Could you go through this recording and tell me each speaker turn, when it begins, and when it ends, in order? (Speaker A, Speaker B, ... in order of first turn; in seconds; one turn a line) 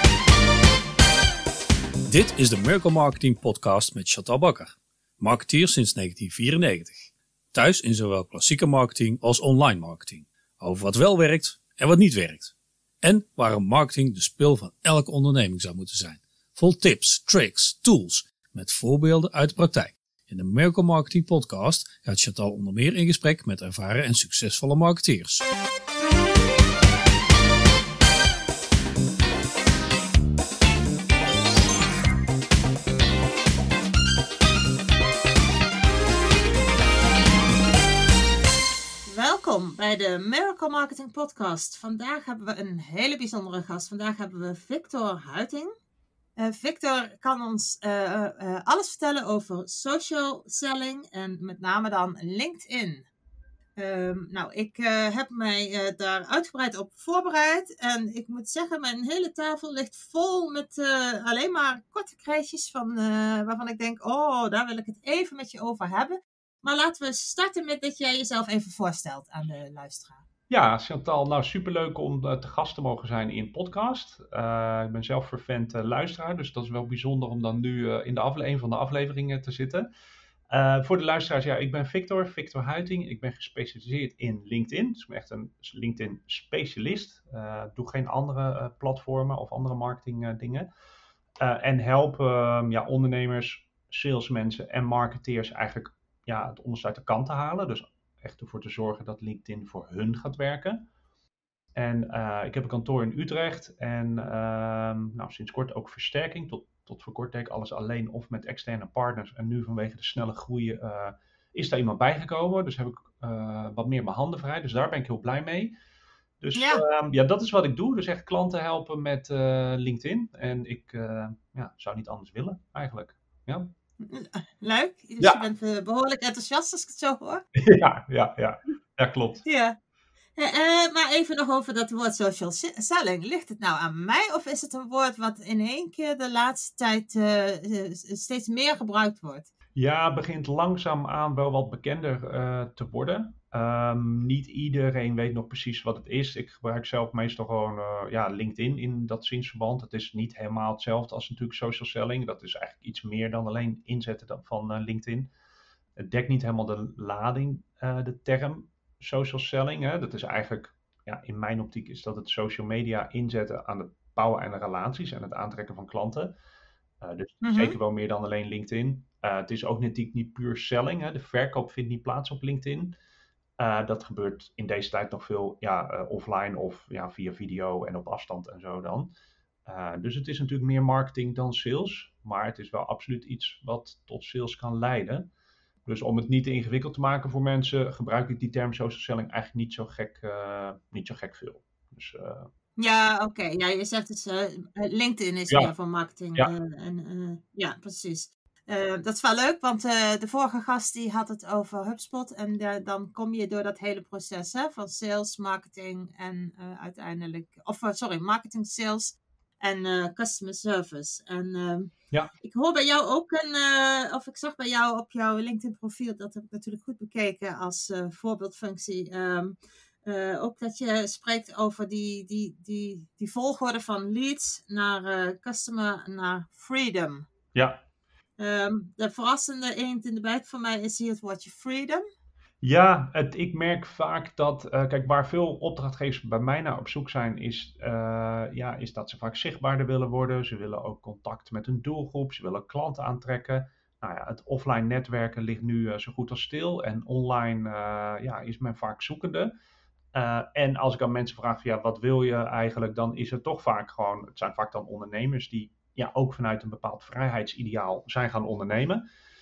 Speaker A: 2.1-25.4
Speaker B: 39.1-45.7
Speaker B: 46.4-53.1
Speaker B: 53.8-70.2
Speaker C: 70.5-79.9
Speaker C: 80.5-90.7
Speaker C: 91.4-100.8
Speaker C: 101.8-115.7
Speaker C: 116.4-123.7
Speaker B: 116.5-116.8
Speaker B: 124.0-127.4
Speaker C: 127.5-129.4
Speaker B: 129.4-129.8
Speaker B: 130.4-139.5
Speaker C: 139.8-155.3
Speaker C: 156.0-166.3
Speaker C: 167.0-172.9
Speaker B: 167.4-167.8
Speaker C: 173.6-179.1
Speaker C: 179.7-185.3
Speaker C: 185.9-192.5
Speaker B: 192.8-227.3
Speaker C: 227.5-227.8
Speaker B: 228.4-232.0
Speaker C: 232.6-249.5
Speaker C: 250.1-259.0